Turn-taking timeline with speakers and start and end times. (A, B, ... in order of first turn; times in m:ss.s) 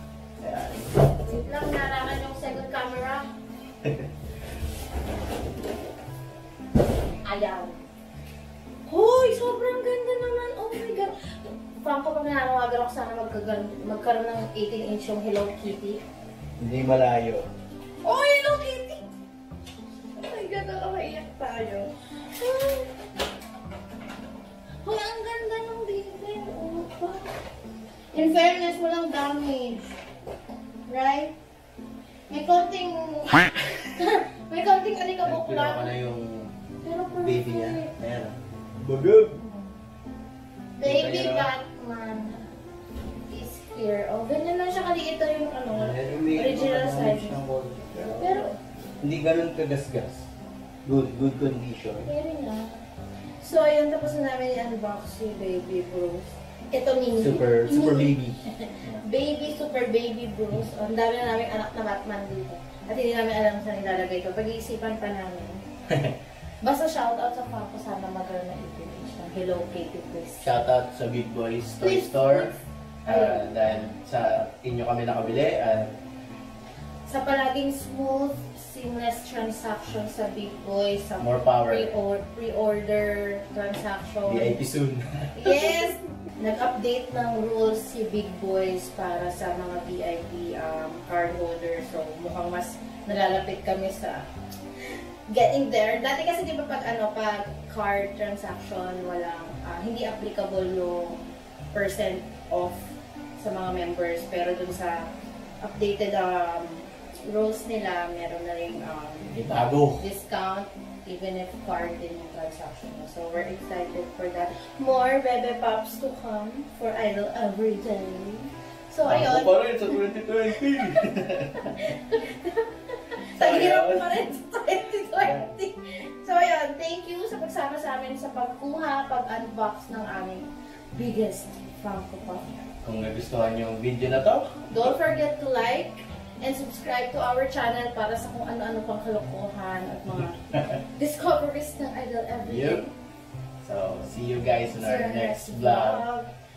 0:00.4-0:00.9 A
0:01.1-0:03.3 B
0:07.2-0:07.8 B
0:08.8-0:11.1 B
0:11.8-0:16.0 B
0:16.6-0:17.4 A
0:18.0-0:19.0 B
0:20.1-0:22.9 B
0:24.8-0:27.3 B
0:28.1-0:29.9 B
0:30.9-0:31.3 B
0:32.3-0:35.9 B
0:35.2-0:36.5 A
0:36.8-0:37.9 B
0:37.2-0:39.4 A
0:39.4-0:39.7 B
0:40.8-0:42.4 B
0:40.8-0:41.5 A
0:43.3-0:47.4 B
0:45.7-0:48.3 A
0:48.2-0:48.6 B
0:49.0-0:50.3 A
0:50.8-0:52.1 A
0:52.0-0:52.8 B
0:53.4-1:05.6 B
0:57.2-0:59.0 A
1:05.9-1:06.2 A
1:06.6-1:10.5 B
1:10.4-1:12.5 A
1:11.8-1:13.7 B
1:13.0-1:15.9 A
1:17.1-1:24.6 B
1:21.2-1:21.9 A
1:24.2-1:25.4 A
1:25.3-1:34.3 B
1:35.3-1:45.0 B
1:45.6-1:49.3 B
1:49.3-1:50.0 A
1:50.0-2:00.0 B
1:59.0-2:01.8 A
2:01.6-2:12.4 B
2:03.4-2:04.2 A
2:05.2-2:05.5 A
2:12.8-2:14.5 A
2:14.7-2:22.9 B
2:22.5-2:22.8 A
2:23.6-2:26.0 A
2:24.8-2:26.3 B